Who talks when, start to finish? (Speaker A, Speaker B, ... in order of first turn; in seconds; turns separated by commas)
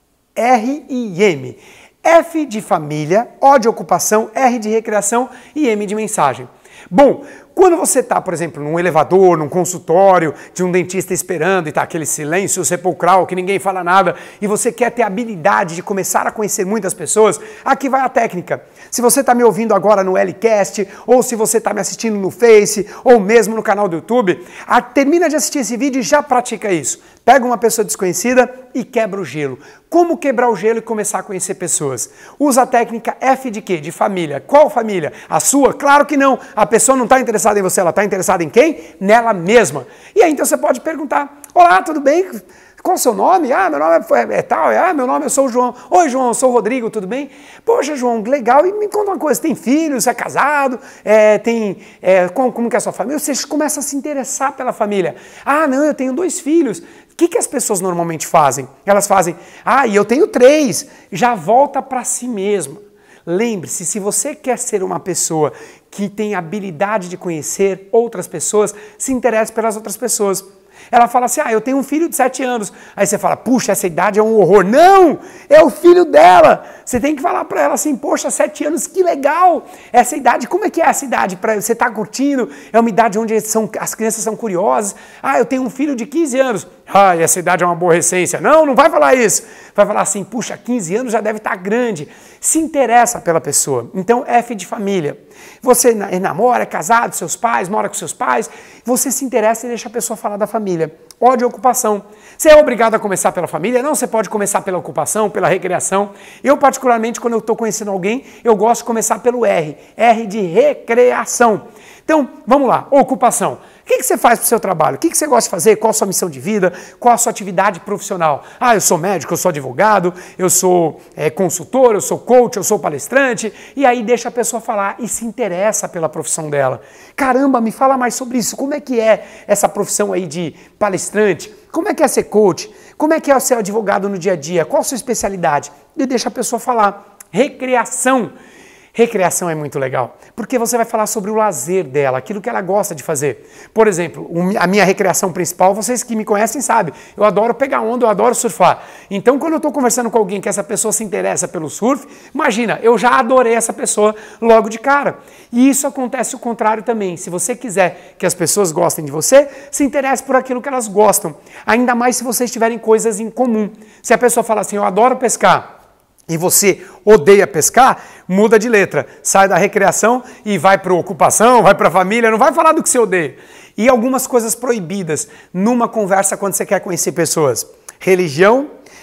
Speaker A: 0.3-138.3, Speaker A: 138.9-165.7, Speaker A: 166.3-178.7